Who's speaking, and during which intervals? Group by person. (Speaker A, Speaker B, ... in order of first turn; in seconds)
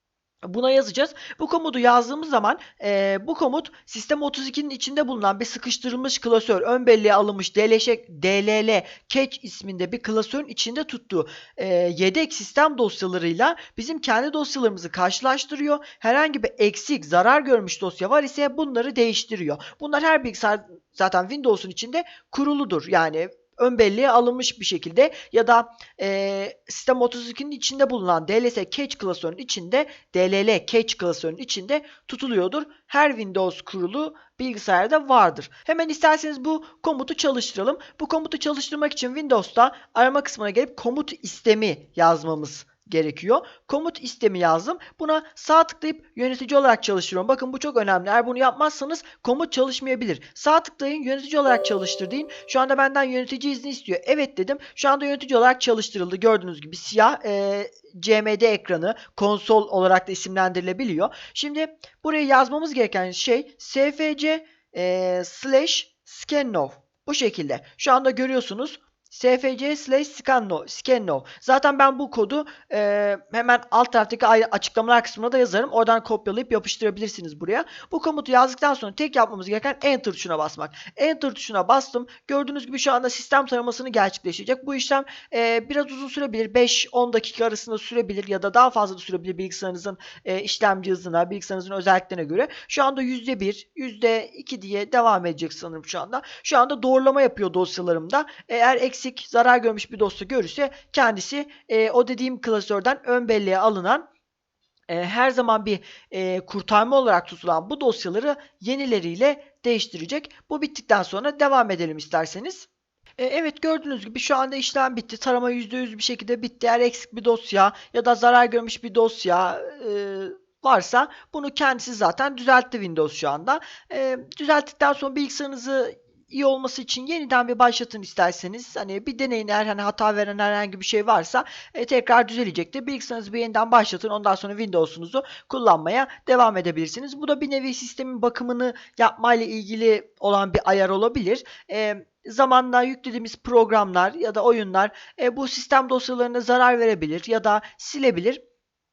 Speaker A: 0.5-104.1, 104.9-148.4